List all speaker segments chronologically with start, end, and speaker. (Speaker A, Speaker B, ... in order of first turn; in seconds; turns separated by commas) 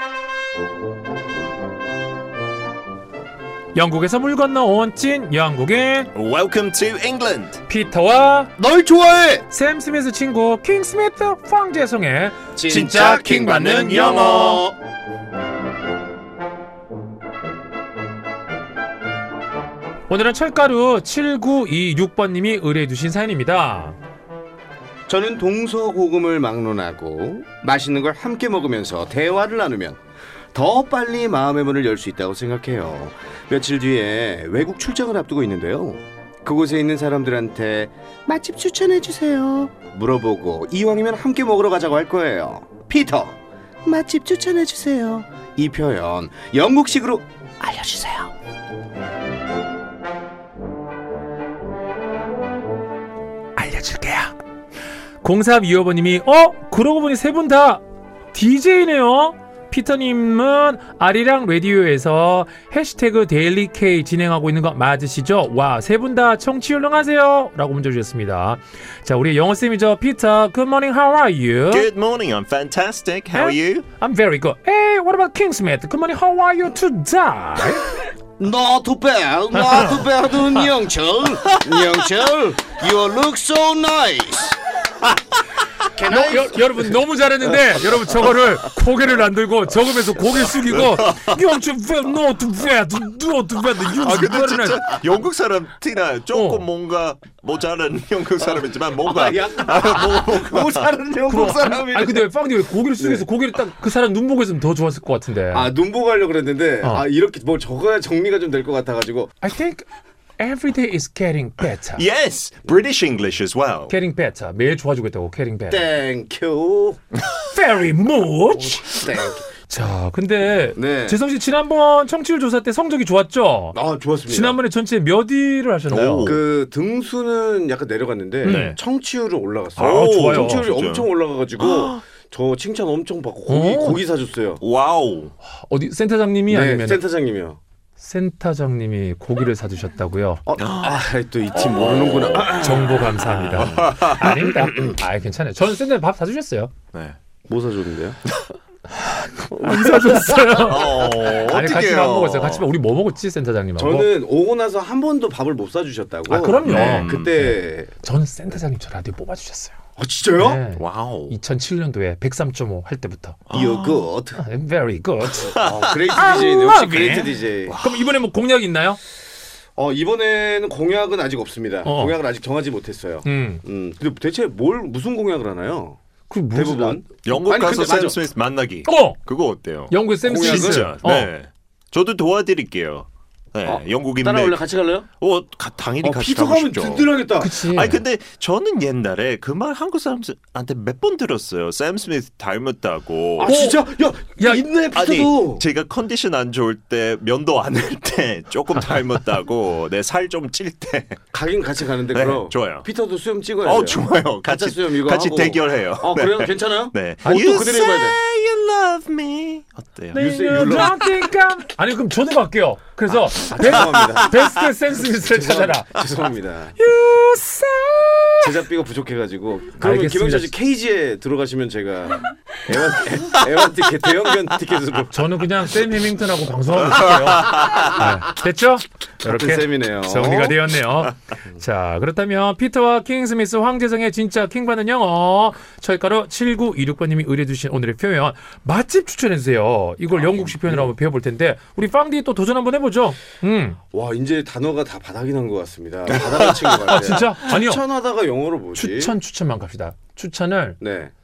Speaker A: 3.8-6.1, Speaker B: 6.1-7.6, Speaker A: 7.7-8.5, Speaker C: 8.6-9.5, Speaker A: 9.5-14.6, Speaker C: 12.5-14.7, Speaker B: 12.6-14.6, Speaker A: 20.1-24.0, Speaker C: 25.1-30.0, Speaker C: 30.5-48.3, Speaker A: 53.5-54.4, Speaker A: 55.2-71.9, Speaker B: 71.7-73.8, Speaker A: 73.3-77.9, Speaker C: 78.4-84.6, Speaker A: 79.5-80.6, Speaker C: 85.9-86.7, Speaker A: 86.1-94.8, Speaker B: 90.7-91.4, Speaker B: 93.8-100.9, Speaker A: 96.3-96.7, Speaker C: 99.0-102.3, Speaker A: 101.3-105.7, Speaker C: 103.0-103.2, Speaker C: 105.5-109.3, Speaker A: 109.4-109.8, Speaker A: 110.4-112.0, Speaker B: 112.0-114.0, Speaker A: 113.9-115.8, Speaker C: 115.7-117.0, Speaker A: 117.5-119.0, Speaker C: 118.5-119.4, Speaker A: 119.7-126.4, Speaker C: 120.8-121.2, Speaker C: 123.7-124.6, Speaker B: 125.9-126.4, Speaker C: 126.2-134.6, Speaker A: 128.4-128.8, Speaker B: 128.4-128.8, Speaker A: 129.8-130.7, Speaker B: 129.8-132.0, Speaker A: 133.5-134.0, Speaker B: 134.6-135.3, Speaker A: 135.5-137.0, Speaker C: 136.5-137.6, Speaker A: 138.0-140.4, Speaker C: 140.5-143.2, Speaker B: 140.6-141.0, Speaker B: 141.6-142.6, Speaker A: 142.6-146.7, Speaker B: 143.3-145.0, Speaker C: 147.5-148.2, Speaker A: 148.9-154.1, Speaker C: 149.5-150.8, Speaker B: 150.6-152.7, Speaker C: 153.8-157.9, Speaker A: 156.3-159.8, Speaker B: 156.6-157.4, Speaker C: 160.0-160.6, Speaker A: 160.4-163.4, Speaker B: 160.8-161.3, Speaker B: 163.5-164.1, Speaker C: 163.5-164.4, Speaker A: 164.4-169.0, Speaker B: 165.4-166.0, Speaker C: 165.6-167.8, Speaker B: 167.7-168.1, Speaker C: 169.8-176.0, Speaker A: 171.8-172.2, Speaker A: 173.2-173.6, Speaker A: 176.3-177.0, Speaker C: 176.5-178.2, Speaker B: 177.2-184.6, Speaker A: 178.8-179.2, Speaker A: 179.9-181.3, Speaker C: 180.2-180.9, Speaker C: 183.7-185.1, Speaker B: 185.2-193.6, Speaker C: 186.0-187.6, Speaker A: 187.4-188.0, Speaker C: 193.4-195.6, Speaker A: 193.4-193.8, Speaker A: 194.4-194.7, Speaker B: 194.9-201.2, Speaker C: 201.3-208.2, Speaker B: 202.1-202.9, Speaker B: 203.6-211.3, Speaker A: 207.2-207.7, Speaker A: 210.1-216.0, Speaker C: 210.2-211.0, Speaker C: 213.1-216.8, Speaker A: 216.8-218.6, Speaker C: 218.4-225.1, Speaker A: 219.8-220.5, Speaker A: 225.1-243.8, Speaker B: 227.0-227.9, Speaker C: 229.2-230.6, Speaker C: 240.1-240.9, Speaker C: 243.9-249.1, Speaker A: 246.9-247.8, Speaker A: 248.8-250.8, Speaker C: 250.8-251.1